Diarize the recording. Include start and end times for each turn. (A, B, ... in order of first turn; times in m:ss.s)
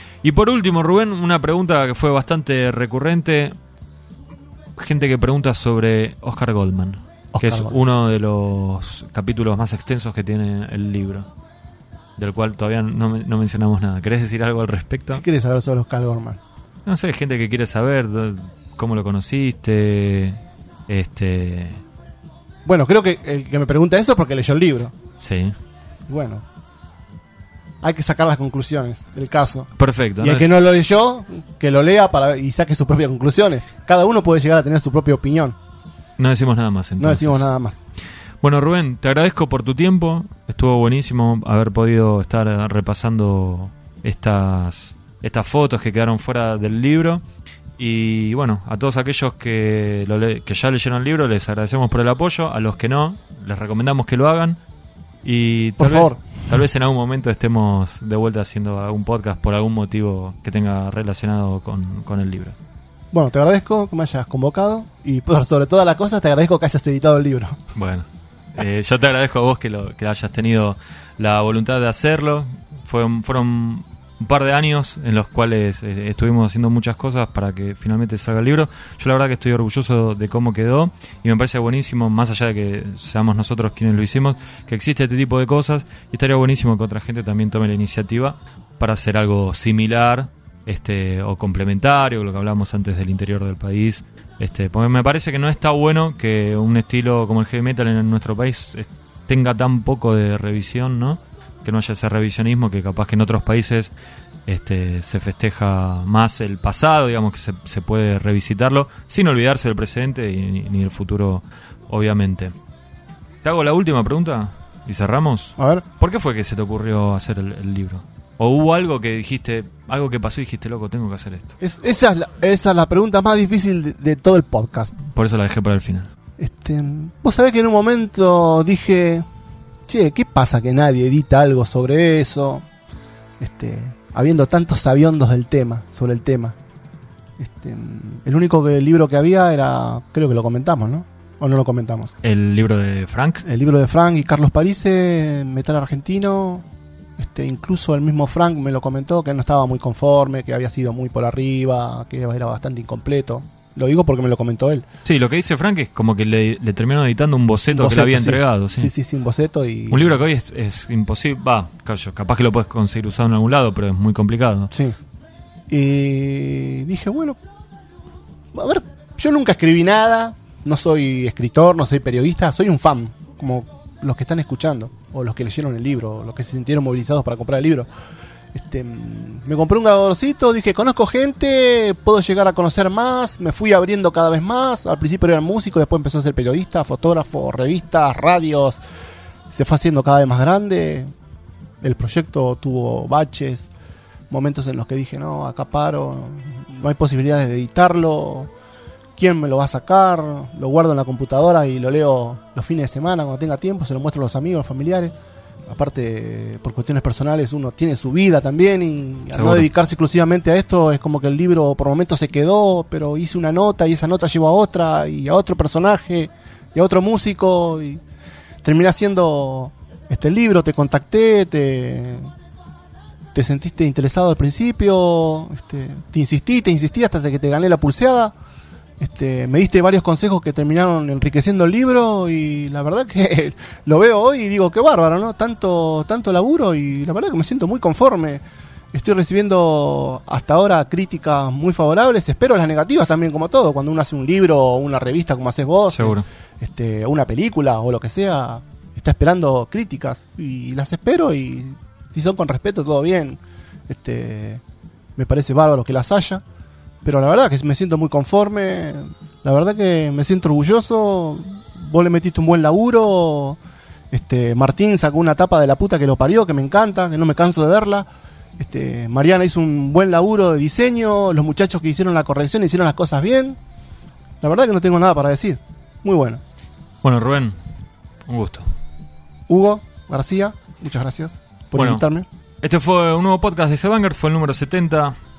0:00.2-0:03.6 A
0:04.8-0:11.3 A
0:07.3-0:07.8 B
0:12.2-0:15.2 A
0:15.2-0:16.4 B
0:16.9-0:21.8 A
0:22.6-0:24.9 B
0:25.2-0:25.6 A
0:26.1-0:26.4 B
0:27.8-0:35.6 B
0:29.8-0:30.5 A
0:36.2-0:37.5 A
0:37.0-0:37.8 B
0:38.4-0:47.2 A
0:47.8-0:54.6 A
0:55.2-1:02.6 A
0:55.8-0:56.3 B
1:03.1-1:07.6 B
1:07.7-1:43.9 A
1:44.5-1:52.6 A
1:53.4-2:01.6 A
1:55.6-1:55.8 B
2:01.6-2:05.0 B
2:05.1-2:06.1 A
2:06.4-2:09.2 B
2:09.9-2:12.6 B
2:13.4-2:16.6 B
2:17.4-2:22.2 B
2:22.2-2:23.4 A
2:23.4-2:26.6 B
2:27.2-2:34.9 B
2:35.0-2:38.9 A
2:37.7-2:40.2 B
2:39.9-2:44.7 A
2:44.7-2:45.0 B
2:45.7-2:47.4 B
2:48.5-2:57.9 B
2:58.5-3:08.8 B
3:09.5-3:11.1 B
3:11.8-3:13.7 B
3:14.3-3:18.5 B
3:19.2-3:25.1 B
3:25.7-3:38.0 B
3:29.3-3:29.7 A
3:38.6-3:42.3 B
3:43.3-3:48.3 B
3:49.0-4:14.6 B
4:05.9-4:06.2 A
4:15.2-4:16.4 B
4:17.0-4:23.6 B
4:24.1-4:28.1 B
4:28.6-4:33.6 B
4:34.4-4:36.4 B
4:37.0-4:37.6 A
4:38.3-4:38.7 A
4:39.5-4:42.3 B
4:41.8-4:42.1 A
4:42.6-4:45.2 A